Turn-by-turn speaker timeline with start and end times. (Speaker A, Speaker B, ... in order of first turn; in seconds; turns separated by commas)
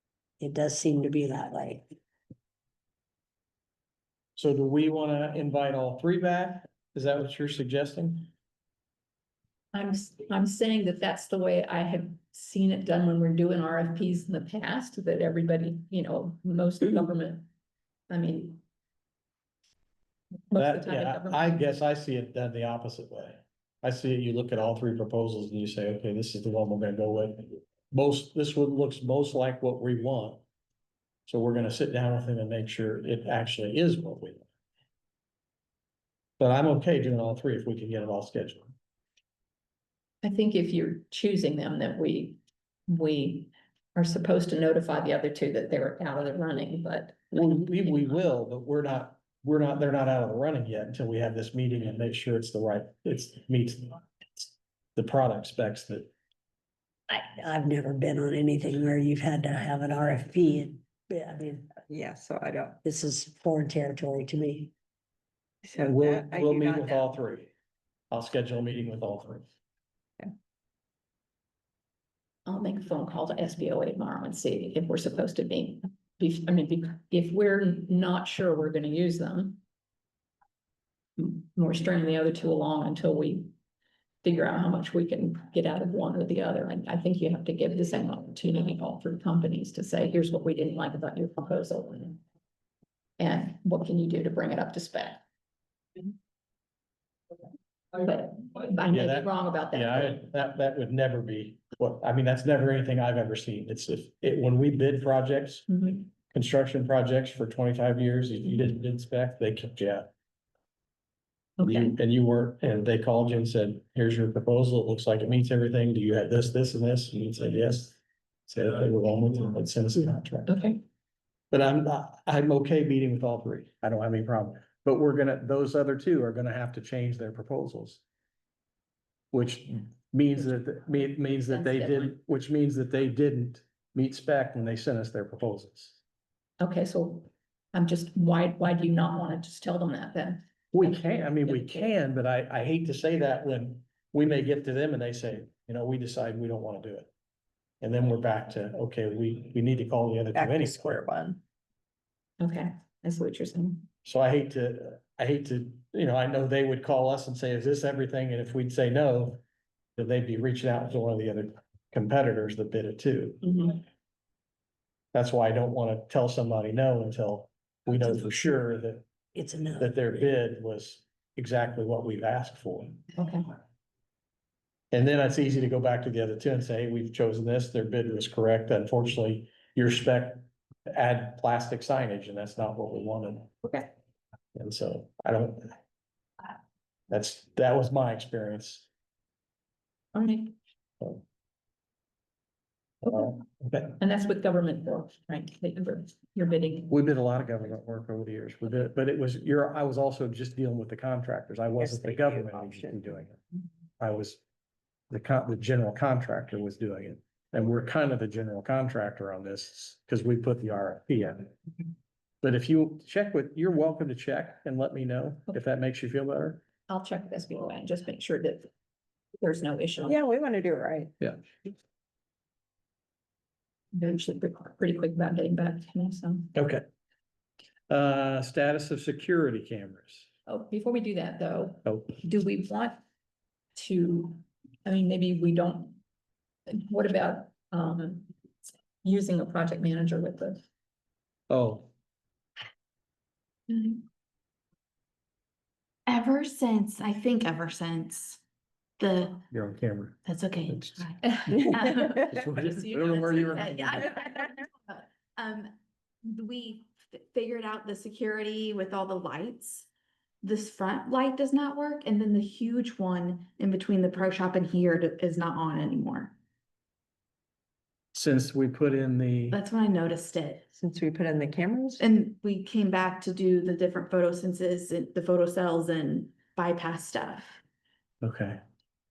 Speaker A: 0.4-1.9, Speaker B: 4.3-8.3, Speaker C: 9.7-17.5, Speaker C: 18.1-18.6, Speaker C: 20.5-21.6, Speaker B: 20.6-30.4, Speaker B: 31.3-34.5, Speaker B: 36.4-38.7, Speaker C: 40.2-47.3, Speaker B: 47.3-56.1, Speaker A: 57.1-61.7, Speaker D: 61.9-62.8, Speaker A: 62.8-64.7, Speaker D: 65.6-67.1, Speaker B: 65.8-67.5, Speaker B: 68.1-69.5, Speaker C: 72.5-79.6, Speaker C: 81.2-83.5, Speaker C: 84.2-92.2, Speaker C: 93.2-95.2, Speaker C: 97.9-100.2, Speaker B: 98.9-110.1, Speaker C: 105.7-106.0, Speaker C: 111.6-112.0, Speaker B: 111.6-120.5, Speaker C: 120.5-120.8, Speaker B: 121.5-128.0, Speaker B: 129.3-136.0, Speaker C: 131.5-132.1, Speaker C: 136.6-141.9, Speaker B: 140.7-147.1, Speaker B: 147.8-151.0, Speaker D: 150.3-151.4, Speaker C: 152.4-153.8, Speaker B: 154.0-159.4, Speaker B: 159.9-163.6, Speaker C: 163.5-163.7, Speaker B: 165.1-169.0, Speaker A: 169.3-169.9, Speaker B: 169.8-173.0, Speaker C: 173.1-173.4, Speaker B: 174.9-183.5, Speaker B: 184.5-185.8, Speaker B: 187.1-188.9, Speaker C: 190.1-190.5, Speaker B: 193.0-193.9, Speaker C: 194.0-196.9, Speaker B: 196.9-203.4, Speaker D: 201.8-202.9, Speaker B: 204.0-204.4, Speaker B: 205.1-211.5, Speaker B: 212.4-216.6, Speaker C: 216.9-218.7, Speaker C: 219.4-220.2, Speaker D: 220.0-221.1, Speaker C: 223.9-226.5, Speaker B: 226.5-226.8, Speaker B: 227.9-230.3, Speaker C: 230.4-233.0, Speaker B: 231.8-232.2, Speaker C: 233.8-236.0, Speaker C: 236.7-238.3, Speaker C: 239.0-240.6, Speaker B: 241.5-241.9, Speaker C: 243.7-244.0, Speaker E: 246.1-248.4, Speaker E: 249.0-249.4, Speaker B: 249.5-251.1, Speaker E: 250.2-252.3, Speaker C: 251.2-251.6, Speaker C: 252.2-253.8, Speaker B: 252.3-254.1, Speaker E: 253.5-255.7, Speaker E: 256.2-259.9, Speaker E: 260.4-266.3, Speaker B: 268.1-269.6, Speaker E: 269.5-270.7, Speaker D: 270.8-272.1, Speaker E: 272.0-277.6, Speaker B: 278.2-278.6